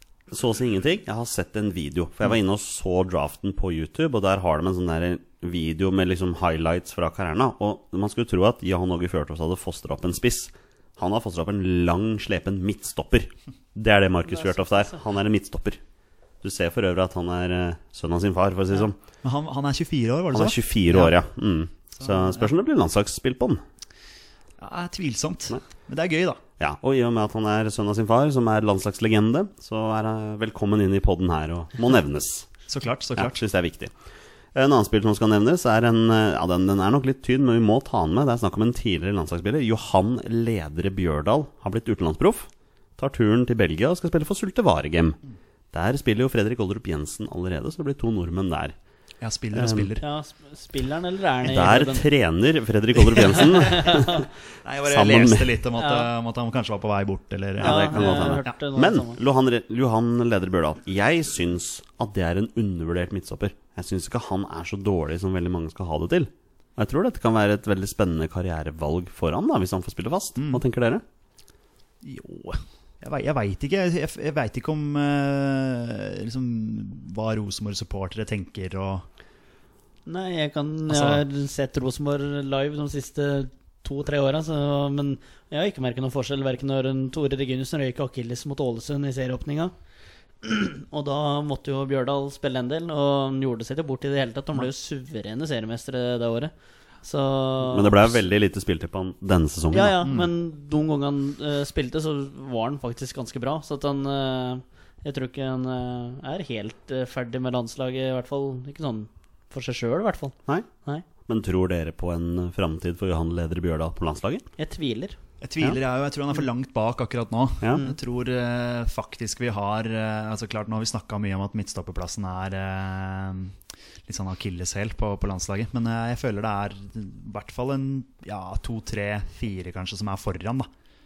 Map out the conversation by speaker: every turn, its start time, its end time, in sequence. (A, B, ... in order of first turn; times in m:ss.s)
0:00.3-0:15.8 A
0:14.4-0:14.9 B
0:16.4-0:19.0 A
0:19.2-0:21.2 C
0:20.3-0:23.6 A
0:21.9-0:22.5 C
0:24.6-0:26.4 C
0:26.6-0:32.5 A
0:32.7-0:33.4 C
0:33.2-0:33.9 A
0:34.5-0:45.2 A
0:45.7-0:48.7 A
0:49.2-0:50.0 C
0:49.5-0:49.9 A
0:50.0-0:52.0 B
0:51.4-0:54.3 A
0:53.4-0:54.2 B
0:54.6-0:58.6 C
0:54.8-0:55.6 A
0:55.8-0:56.1 B
0:57.6-1:11.0 A
0:57.6-0:59.2 B
1:10.4-1:10.6 C
1:12.0-1:19.0 C
1:20.0-1:29.7 B
1:20.9-1:21.2 C
1:30.4-1:36.5 B
1:37.0-1:38.2 B
1:37.6-1:40.0 A
1:39.7-1:51.0 B
1:40.0-1:40.3 C
1:51.2-1:54.4 A
1:54.6-1:55.2 B
1:55.4-2:03.5 C
2:04.1-2:10.7 C